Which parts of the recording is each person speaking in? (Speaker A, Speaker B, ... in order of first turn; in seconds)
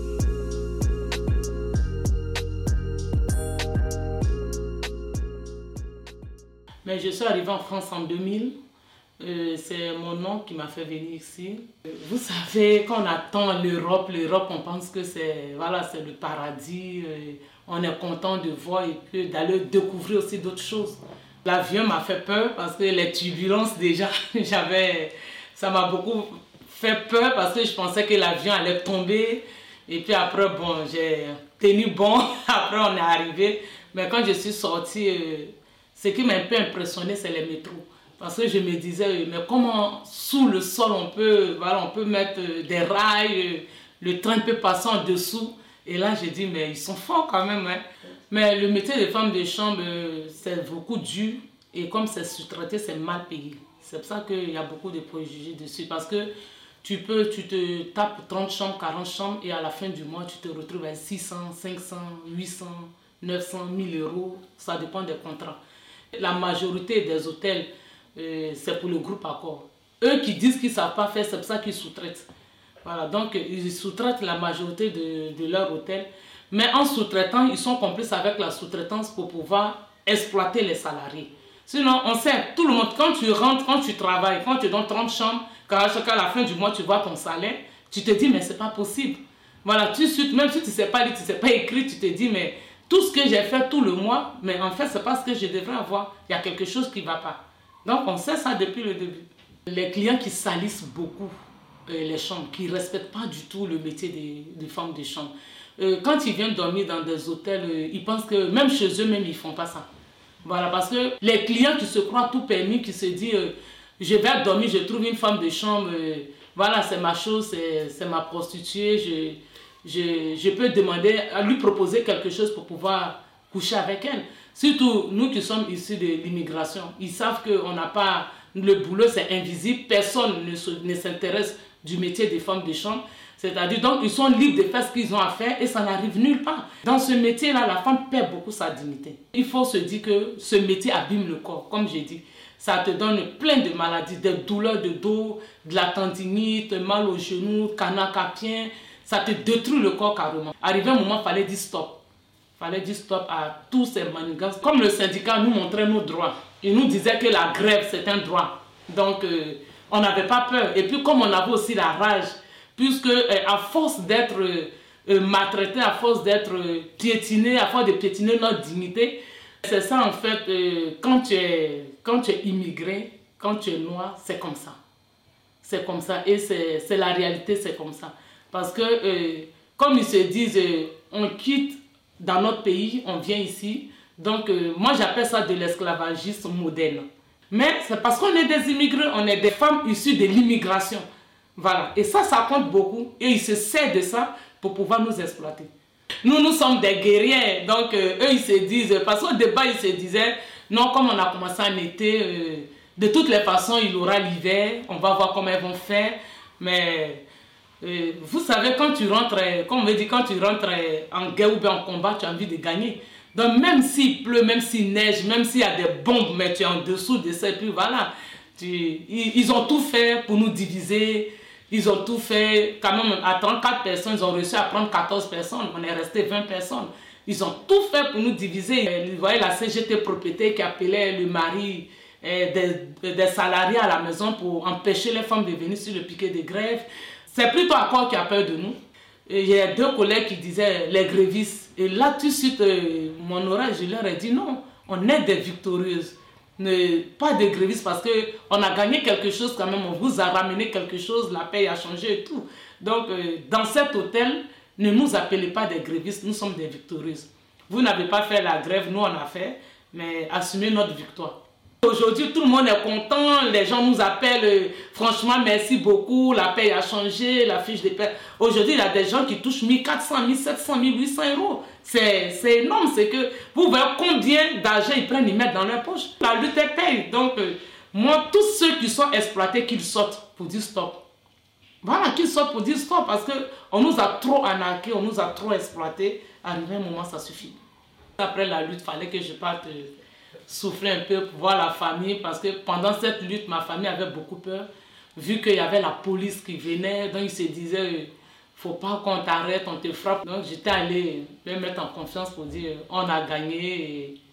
Speaker A: 6.8-8.6, 9.2-65.6, 66.1-72.3, 72.8-101.3, 101.9-109.8, 110.4-152.0, 152.6-174.8, 175.6-191.0, 191.6-195.7, 196.2-207.2, 207.8-281.0, 281.8-287.6, 288.2-289.9, 290.4-304.2